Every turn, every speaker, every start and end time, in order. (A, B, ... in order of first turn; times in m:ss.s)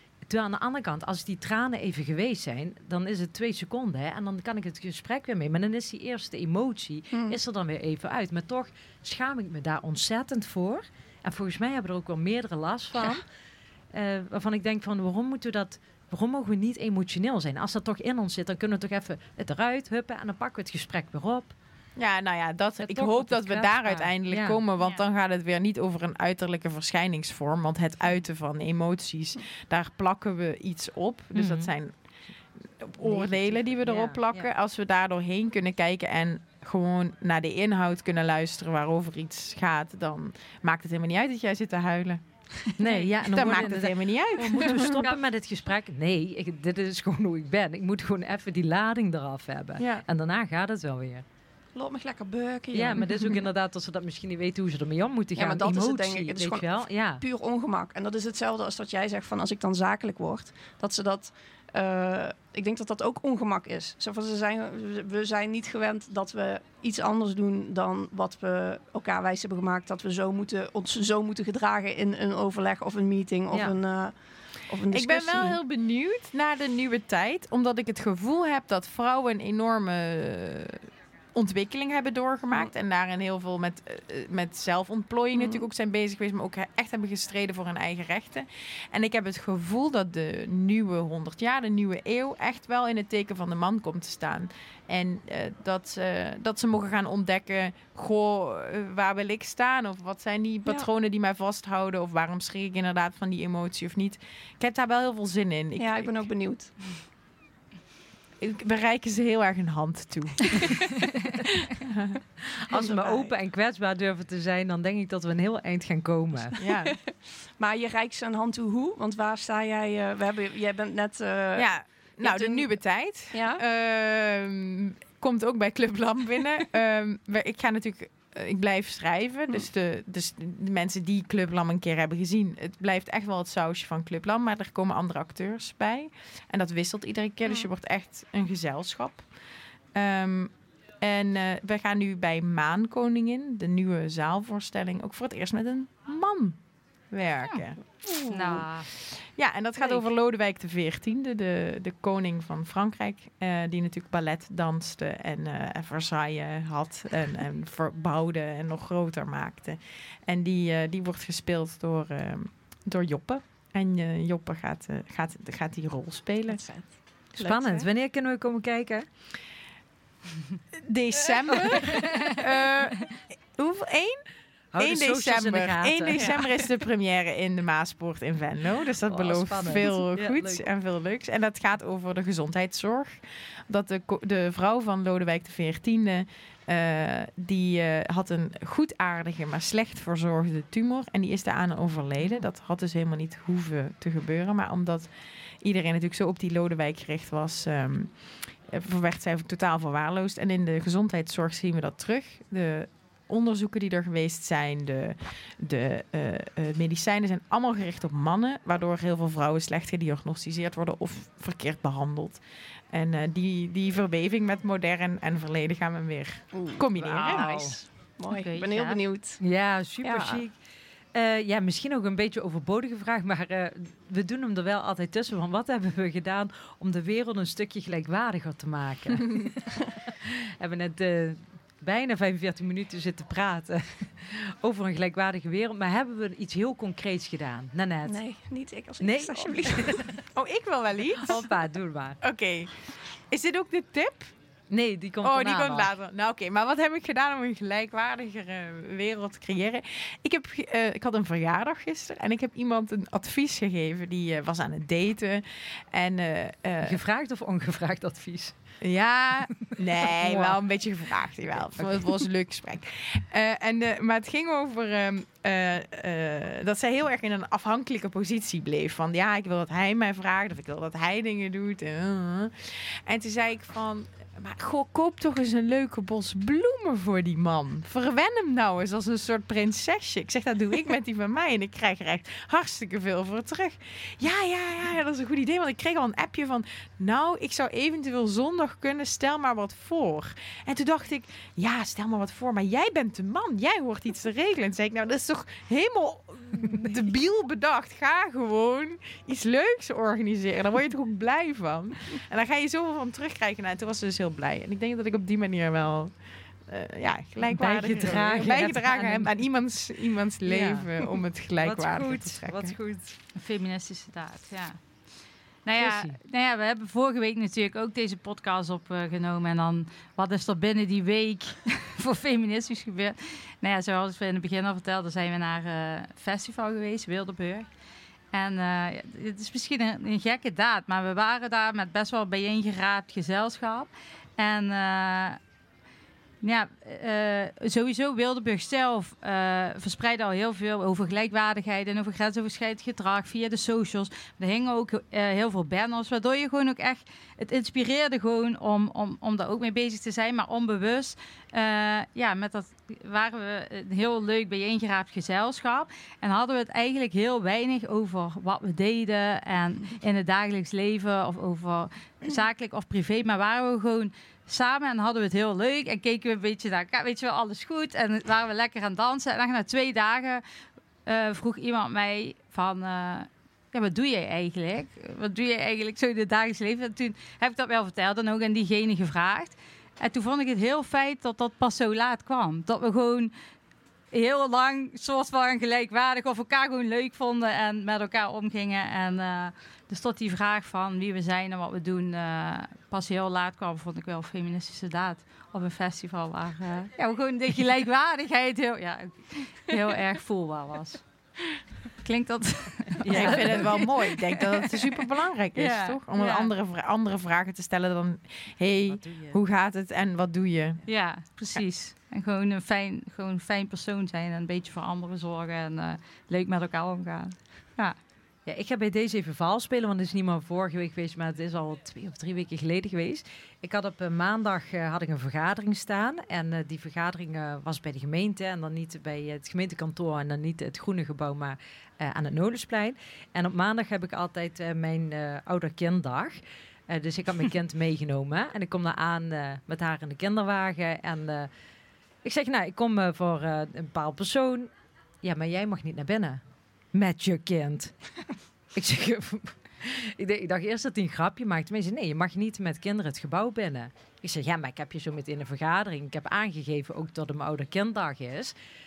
0:00.3-0:13.2 A
0:07.1-0:07.4 B
0:13.9-0:21.5 A
0:22.0-0:31.9 C
0:22.8-0:24.6 A
0:31.3-0:31.7 A
0:32.6-0:42.2 C
0:33.0-0:34.5 A
0:42.8-0:51.2 A
0:43.3-0:45.2 C
0:49.8-0:50.0 C
0:51.8-0:53.3 B
0:52.7-0:57.2 A
0:55.4-1:15.6 B
1:13.5-1:13.8 A
1:14.9-1:46.2 C
1:25.4-1:25.6 B
1:45.8-1:47.0 B
1:48.4-1:50.8 C
1:51.8-1:52.2 C
1:52.4-1:56.6 A
1:52.7-1:53.3 B
1:56.6-1:57.0 C
1:56.6-2:02.7 B
2:01.6-2:19.2 C
2:03.3-2:03.6 B
2:20.0-2:26.6 C
2:27.1-2:27.8 C
2:28.0-2:28.6 B
2:28.3-2:28.9 D
2:28.9-2:46.6 C
2:46.5-2:47.9 B
2:47.4-2:49.1 A
2:50.8-2:54.2 C
2:54.7-2:56.6 A
2:54.8-3:15.1 C
2:59.1-3:00.7 A
3:15.6-3:18.1 C
3:18.7-3:37.5 C
3:36.5-3:39.4 B
3:37.2-3:37.8 A
3:38.3-3:39.0 D
3:39.4-3:40.6 A
3:40.0-3:40.4 B
3:41.1-3:49.6 A
3:50.2-3:58.2 A
3:58.1-4:00.2 B
3:59.0-4:00.1 A
4:00.3-4:01.4 C
4:01.2-4:02.2 A
4:02.2-4:04.3 C
4:04.7-4:05.9 A
4:05.2-4:17.0 C
4:16.8-4:18.5 A
4:18.8-5:06.1 C
4:19.7-4:20.6 A
4:21.8-4:22.2 A
5:06.7-5:12.8 C
5:07.5-5:09.3 A
5:10.4-5:13.2 A
5:13.4-5:14.8 D
5:15.6-5:27.7 D
5:15.8-5:16.2 A
5:28.3-5:35.4 D
5:36.4-6:10.4 D
6:11.0-6:23.3 D
6:24.1-6:41.0 D
6:42.0-6:44.8 D
6:43.0-6:43.9 A
6:43.1-6:50.8 C
6:45.6-6:46.5 D
6:48.9-6:49.4 A
6:50.9-6:58.0 D
6:58.5-7:21.5 A
7:22.2-7:24.7 A
7:25.2-7:26.4 A
7:26.9-7:28.1 A
7:28.7-7:38.5 A